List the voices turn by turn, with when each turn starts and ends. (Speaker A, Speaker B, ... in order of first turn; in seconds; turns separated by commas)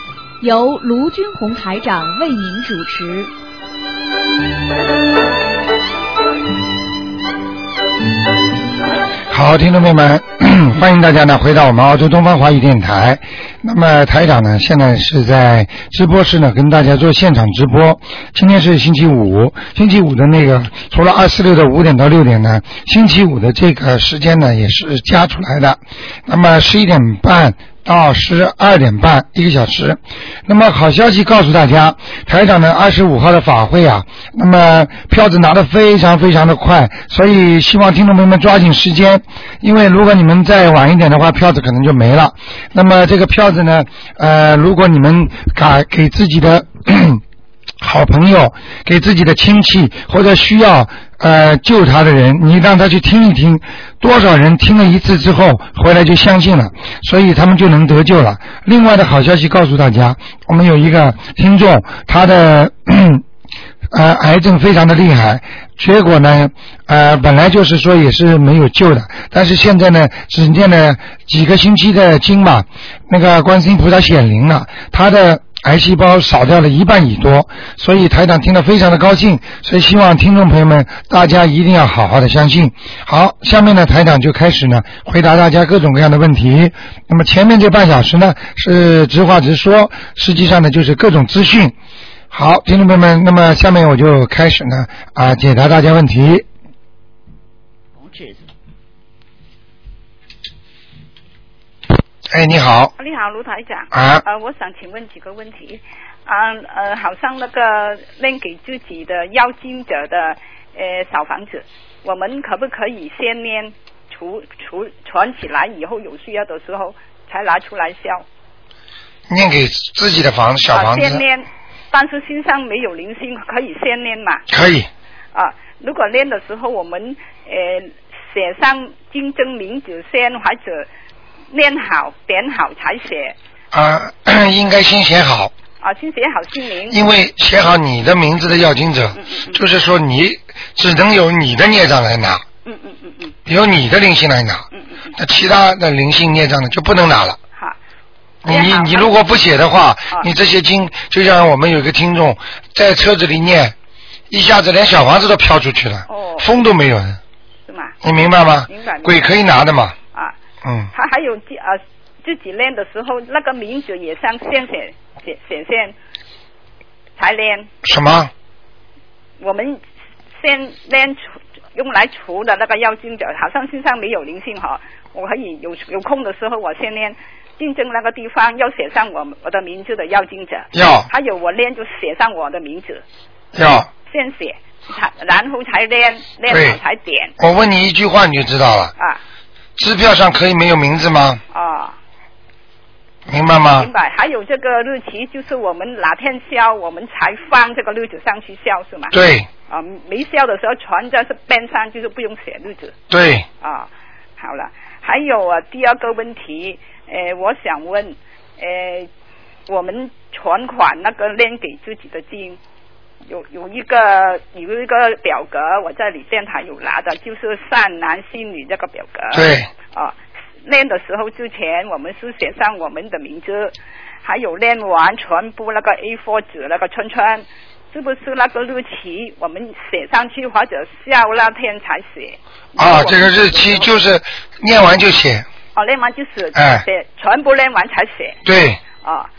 Speaker A: 0.4-3.3, Speaker B: 9.3-47.2, Speaker B: 47.8-63.2, Speaker B: 63.9-91.7, Speaker B: 92.3-96.5, Speaker A: 98.0-98.5, Speaker B: 102.3-102.9, Speaker C: 103.0-118.2, Speaker B: 103.9-104.2, Speaker B: 119.3-121.2, Speaker C: 120.7-124.4, Speaker B: 124.5-124.9, Speaker C: 125.3-130.9, Speaker C: 131.5-133.3, Speaker B: 133.7-135.5, Speaker C: 135.8-137.0, Speaker B: 136.9-142.4, Speaker C: 139.2-139.6, Speaker C: 142.6-143.4, Speaker B: 143.5-144.6, Speaker C: 144.7-145.2, Speaker B: 145.2-147.4, Speaker B: 148.4-153.7, Speaker C: 148.5-149.1, Speaker B: 154.3-157.2, Speaker C: 156.1-156.5, Speaker C: 157.7-157.9, Speaker B: 158.0-159.9, Speaker C: 158.7-159.3, Speaker B: 160.6-160.9, Speaker C: 160.9-165.9, Speaker C: 167.2-167.7, Speaker B: 167.8-168.3, Speaker C: 169.4-169.8, Speaker C: 170.4-171.2, Speaker C: 171.7-183.0, Speaker B: 180.7-181.1, Speaker B: 183.5-183.9, Speaker C: 184.1-187.3, Speaker B: 186.5-186.8, Speaker B: 187.4-188.9, Speaker B: 189.8-191.4, Speaker C: 191.5-191.9, Speaker B: 193.3-193.9, Speaker C: 193.7-199.2, Speaker B: 199.1-199.5, Speaker C: 199.7-202.9, Speaker B: 203.1-203.4, Speaker C: 203.6-209.1, Speaker C: 209.7-212.6, Speaker C: 213.3-233.9, Speaker B: 219.3-219.7, Speaker B: 232.8-235.5, Speaker C: 235.7-238.4, Speaker B: 236.5-236.8, Speaker B: 238.4-238.8, Speaker C: 238.9-239.3